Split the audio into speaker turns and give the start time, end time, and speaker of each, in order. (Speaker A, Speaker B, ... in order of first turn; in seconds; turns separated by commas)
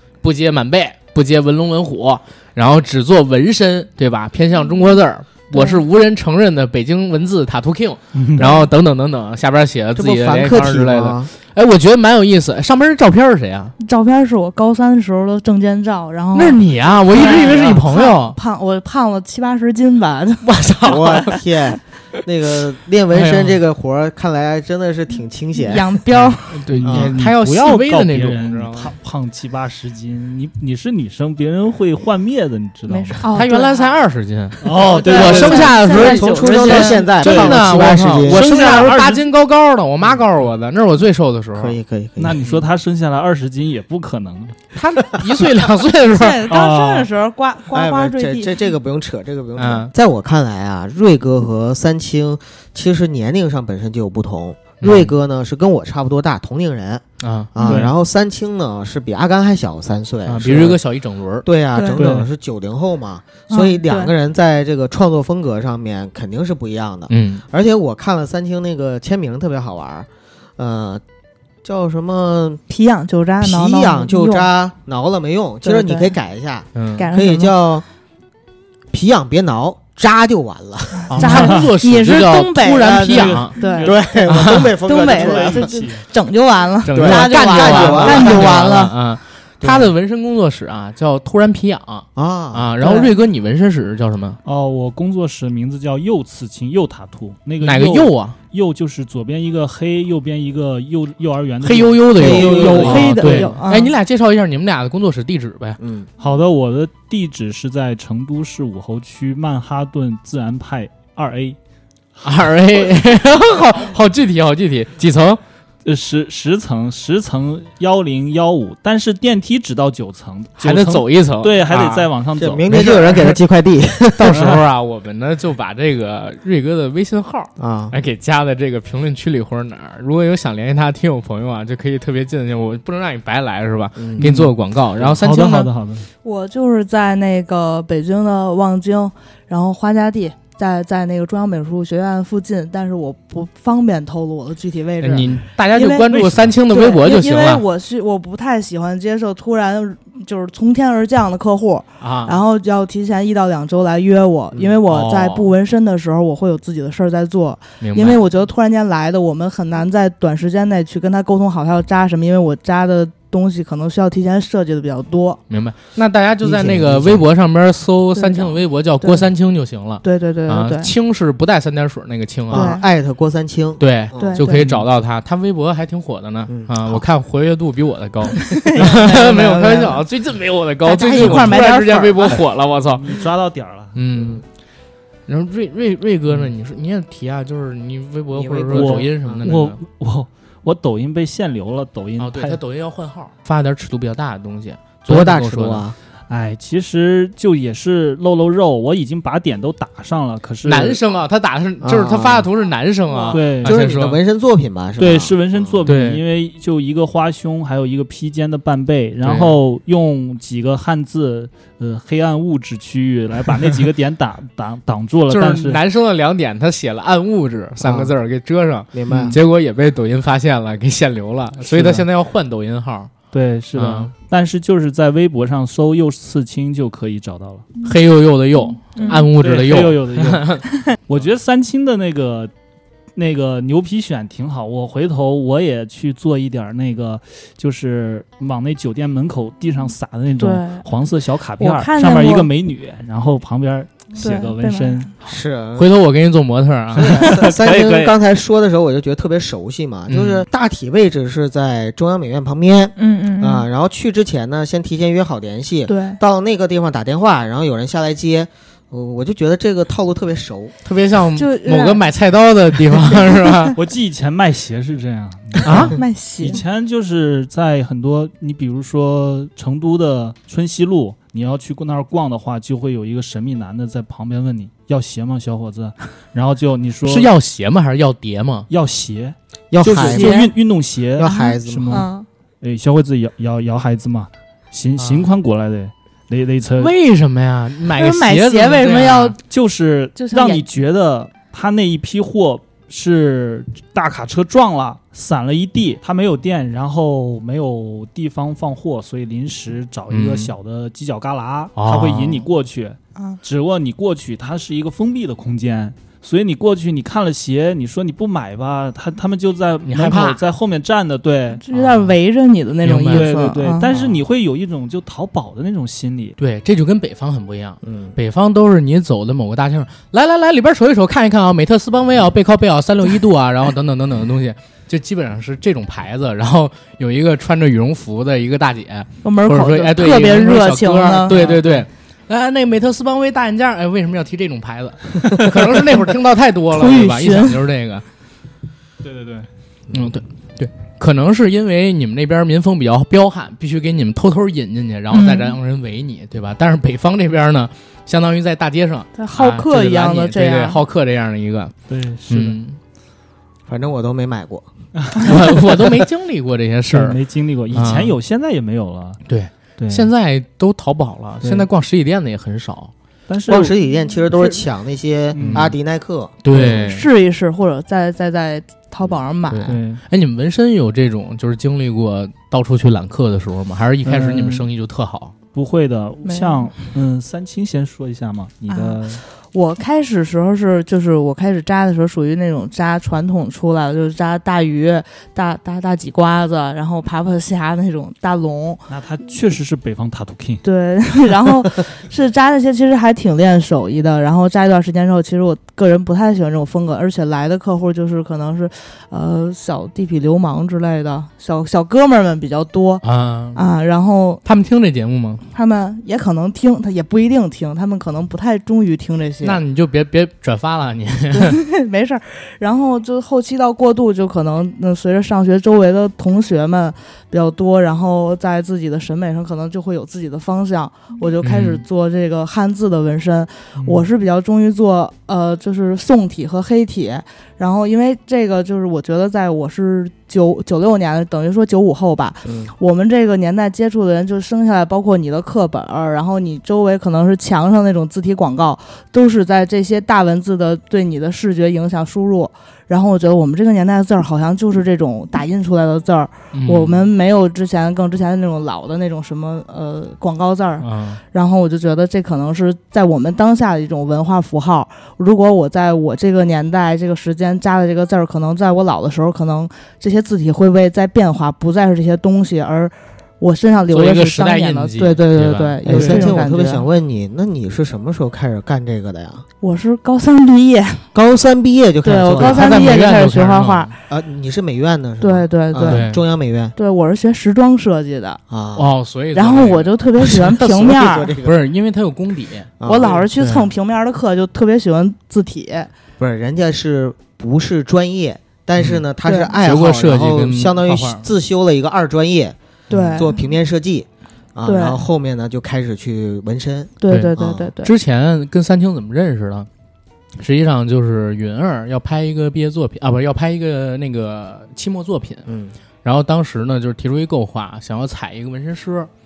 Speaker A: 0.2-13.7, Speaker B: 5.5-5.8, Speaker C: 8.2-8.4, Speaker B: 8.4-8.7, Speaker D: 9.9-11.3, Speaker B: 13.8-20.5, Speaker A: 16.3-18.4, Speaker C: 17.1-17.8, Speaker A: 20.4-21.4, Speaker D: 20.8-25.9, Speaker A: 23.1-23.6, Speaker B: 25.6-26.6, Speaker A: 26.1-28.9, Speaker C: 26.7-33.3, Speaker D: 26.8-27.1, Speaker B: 32.9-33.9, Speaker A: 33.3-41.8, Speaker C: 34.6-35.8, Speaker B: 34.8-37.1, Speaker D: 35.6-38.9, Speaker C: 37.2-39.3, Speaker D: 41.5-42.5, Speaker C: 42.2-44.7, Speaker A: 44.7-46.4, Speaker B: 46.1-48.5, Speaker C: 46.5-47.1, Speaker D: 47.7-60.8, Speaker A: 49.6-49.9, Speaker A: 54.8-55.1, Speaker A: 57.2-57.8, Speaker A: 60.2-61.5, Speaker D: 61.4-71.0, Speaker B: 61.7-62.1, Speaker C: 62.0-62.3, Speaker B: 63.5-64.1, Speaker A: 67.1-67.4, Speaker D: 71.6-72.6, Speaker B: 72.7-74.5, Speaker D: 73.4-77.8, Speaker B: 75.6-76.1, Speaker A: 76.7-77.0, Speaker B: 77.0-77.5, Speaker D: 78.9-81.3, Speaker B: 81.0-84.0, Speaker A: 81.1-83.5, Speaker C: 81.2-81.7, Speaker C: 83.1-86.0, Speaker D: 83.8-85.7, Speaker A: 84.3-84.7, Speaker B: 84.8-88.9, Speaker A: 86.8-94.4, Speaker D: 86.9-88.6, Speaker D: 89.6-89.9, Speaker D: 92.2-92.8, Speaker B: 92.8-93.1, Speaker C: 94.4-103.6, Speaker A: 97.6-98.3, Speaker A: 101.6-105.8, Speaker D: 102.2-103.2, Speaker B: 102.4-103.9, Speaker D: 105.8-106.1, Speaker C: 106.2-111.6, Speaker A: 112.2-115.4, Speaker C: 115.8-123.4, Speaker A: 120.6-122.1, Speaker D: 122.4-124.6, Speaker A: 124.2-135.7, Speaker C: 124.3-124.6, Speaker D: 127.6-128.0, Speaker D: 134.0-134.5, Speaker C: 134.2-136.1, Speaker B: 136.2-165.4, Speaker A: 145.0-147.6, Speaker A: 152.0-152.4, Speaker A: 154.9-155.5, Speaker A: 157.8-158.2, Speaker A: 165.5-172.7, Speaker D: 166.4-167.2, Speaker B: 168.2-169.3, Speaker B: 170.0-170.9, Speaker D: 172.5-174.8, Speaker B: 172.5-172.8, Speaker A: 173.8-183.2, Speaker B: 174.2-174.6, Speaker D: 176.5-177.0, Speaker B: 178.3-180.0, Speaker B: 180.8-182.4, Speaker C: 181.2-181.6, Speaker C: 182.9-183.9, Speaker A: 183.9-184.4, Speaker D: 184.2-184.4, Speaker A: 185.3-189.8, Speaker D: 188.3-189.4, Speaker C: 188.7-192.6, Speaker A: 192.2-195.8, Speaker D: 195.1-196.0, Speaker C: 196.3-201.0, Speaker A: 200.6-204.2, Speaker D: 201.8-202.5, Speaker B: 203.1-203.4, Speaker C: 203.3-203.8, Speaker D: 203.6-205.8, Speaker C: 205.0-215.8, Speaker A: 205.8-206.2, Speaker A: 209.2-209.5, Speaker A: 215.3-223.1, Speaker D: 217.8-218.1, Speaker D: 218.9-219.4, Speaker C: 219.1-219.4, Speaker C: 221.6-222.0, Speaker C: 223.3-227.7, Speaker A: 223.7-224.1, Speaker A: 227.8-230.6, Speaker B: 228.9-229.2, Speaker C: 229.0-232.5, Speaker C: 233.2-245.1, Speaker B: 240.4-240.8, Speaker B: 241.6-242.5, Speaker B: 244.2-245.1, Speaker A: 245.2-247.4, Speaker D: 245.2-245.9, Speaker D: 246.9-260.7, Speaker C: 247.0-248.2, Speaker A: 250.1-250.4, Speaker B: 253.0-253.7, Speaker B: 255.9-256.2, Speaker A: 260.8-263.8, Speaker B: 261.4-262.0, Speaker B: 263.4-263.7, Speaker C: 263.8-277.3, Speaker A: 265.6-265.9, Speaker B: 265.9-266.6, Speaker A: 277.0-278.7, Speaker C: 278.7-282.1, Speaker D: 279.7-280.5, Speaker B: 279.9-280.5, Speaker D: 281.1-282.1, Speaker B: 281.2-282.3, Speaker C: 282.6-286.9, Speaker A: 284.9-285.3, Speaker A: 286.8-289.4, Speaker B: 288.0-289.4, Speaker C: 289.4-311.6, Speaker B: 290.1-290.6, Speaker A: 300.1-300.5, Speaker A: 301.8-302.5, Speaker B: 303.1-303.4, Speaker A: 309.8-310.4, Speaker B: 311.6-313.9, Speaker A: 312.8-313.3, Speaker C: 313.1-316.4, Speaker A: 313.9-314.2, Speaker A: 316.4-338.0, Speaker D: 317.8-318.1, Speaker B: 329.2-331.4, Speaker C: 331.3-331.9, Speaker B: 336.7-337.6, Speaker C: 339.0-339.5, Speaker A: 339.9-351.7, Speaker B: 345.1-345.6, Speaker B: 349.1-350.8, Speaker C: 351.9-352.6, Speaker A: 352.3-352.8, Speaker D: 353.7-354.7, Speaker C: 355.0-355.4, Speaker A: 355.2-357.2, Speaker C: 356.9-359.2, Speaker A: 357.7-358.1, Speaker A: 359.3-362.9, Speaker C: 359.8-360.1, Speaker C: 363.3-363.7, Speaker D: 363.5-366.3, Speaker C: 365.3-365.7, Speaker A: 365.4-365.7, Speaker A: 366.4-367.1, Speaker B: 366.5-369.8, Speaker A: 369.5-375.3, Speaker C: 369.6-370.0, Speaker C: 374.0-374.6, Speaker C: 375.5-379.2, Speaker B: 376.2-376.7, Speaker B: 378.7-388.8, Speaker C: 388.9-390.6, Speaker B: 390.6-404.4, Speaker A: 403.0-403.6, Speaker A: 404.4-405.4, Speaker B: 405.5-409.6, Speaker A: 409.4-411.6, Speaker B: 411.3-466.8, Speaker A: 421.4-421.8, Speaker C: 423.8-424.1, Speaker D: 432.4-432.7, Speaker A: 446.5-447.1, Speaker A: 450.8-451.2, Speaker A: 463.9-465.8, Speaker D: 465.8-469.4, Speaker C: 465.9-466.4, Speaker B: 469.6-471.1, Speaker D: 471.1-473.0, Speaker B: 472.0-473.9, Speaker A: 472.4-473.9, Speaker D: 474.1-476.7, Speaker B: 475.2-476.1, Speaker A: 475.9-476.2, Speaker B: 476.8-478.4, Speaker D: 478.5-478.9, Speaker A: 478.7-480.5, Speaker B: 479.3-481.3, Speaker D: 480.3-481.6, Speaker A: 481.4-482.7, Speaker D: 482.8-483.3, Speaker B: 482.8-485.9, Speaker A: 483.4-483.7, Speaker D: 486.2-492.6, Speaker B: 489.2-489.5, Speaker A: 489.6-491.3, Speaker B: 492.9-493.3, Speaker D: 493.1-497.7, Speaker B: 494.6-495.0, Speaker B: 497.0-497.9, Speaker A: 497.8-499.7, Speaker A: 500.4-505.4, Speaker D: 505.5-505.7, Speaker A: 506.0-509.1